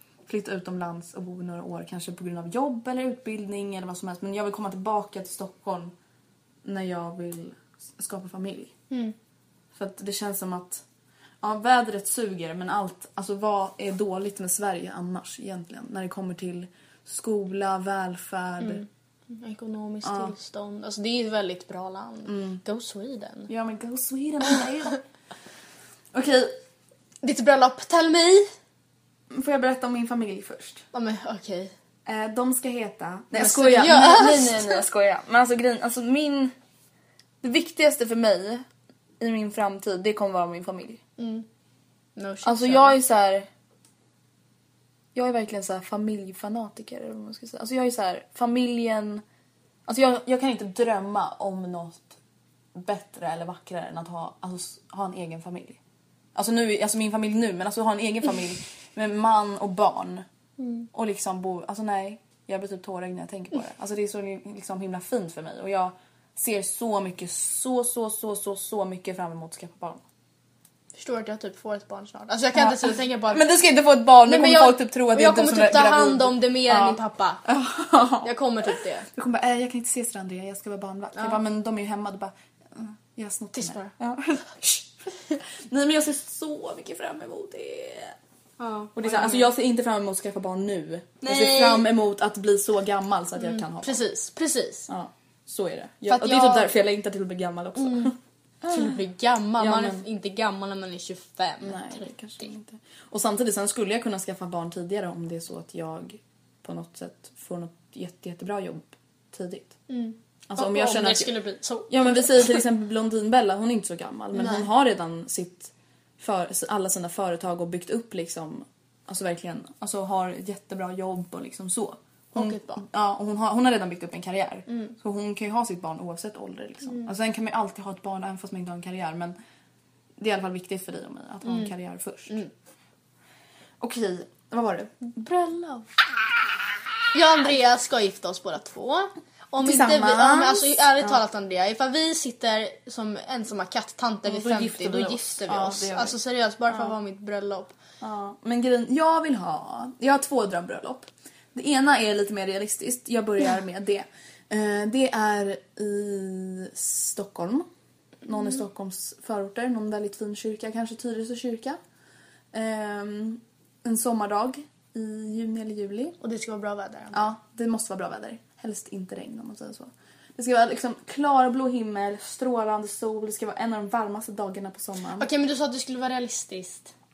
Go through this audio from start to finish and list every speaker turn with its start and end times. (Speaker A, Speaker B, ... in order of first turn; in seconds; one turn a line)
Speaker A: 0.3-5.9
Speaker A: 6.6-8.7
Speaker A: 9.7-10.8
Speaker A: 11.4-18.8
Speaker B: 18.6-23.5
Speaker A: 20.0-20.3
Speaker A: 22.2-22.6
Speaker A: 23.5-25.0
Speaker A: 26.1-26.5
Speaker B: 27.2-28.5
Speaker A: 29.3-30.9
Speaker B: 30.9-31.7
Speaker A: 32.0-36.5
Speaker B: 33.3-34.8
Speaker A: 37.4-38.6
Speaker A: 39.2-41.0
Speaker B: 41.2-41.5
Speaker B: 42.2-43.0
Speaker A: 42.4-43.5
Speaker A: 45.1-49.2
Speaker A: 49.9-52.2
Speaker A: 52.7-55.8
Speaker A: 56.3-60.2
Speaker B: 60.6-60.9
Speaker A: 60.9-70.0
Speaker B: 70.9-73.5
Speaker A: 72.5-78.3
Speaker B: 74.2-77.4
Speaker B: 78.2-79.1
Speaker A: 79.1-88.1
Speaker B: 83.5-83.9
Speaker B: 88.6-89.5
Speaker A: 88.9-94.0
Speaker B: 91.2-91.9
Speaker B: 93.4-94.9
Speaker A: 94.9-98.9
Speaker B: 96.1-96.7
Speaker B: 97.8-98.1
Speaker B: 98.7-102.1
Speaker A: 99.6-100.0
Speaker A: 101.6-109.8
Speaker B: 109.9-112.6
Speaker A: 110.5-111.3
Speaker A: 111.9-129.3
Speaker B: 114.3-114.7
Speaker B: 122.3-122.8
Speaker B: 124.7-125.0
Speaker A: 130.2-132.4
Speaker B: 131.4-131.7
Speaker A: 133.8-135.0
Speaker B: 135.1-135.8
Speaker B: 137.1-147.7
Speaker A: 139.6-141.2
Speaker A: 144.2-146.2
Speaker A: 148.0-157.7
Speaker A: 158.2-161.8
Speaker A: 162.5-166.2
Speaker B: 166.2-167.2
Speaker A: 167.1-175.3
Speaker B: 175.2-176.9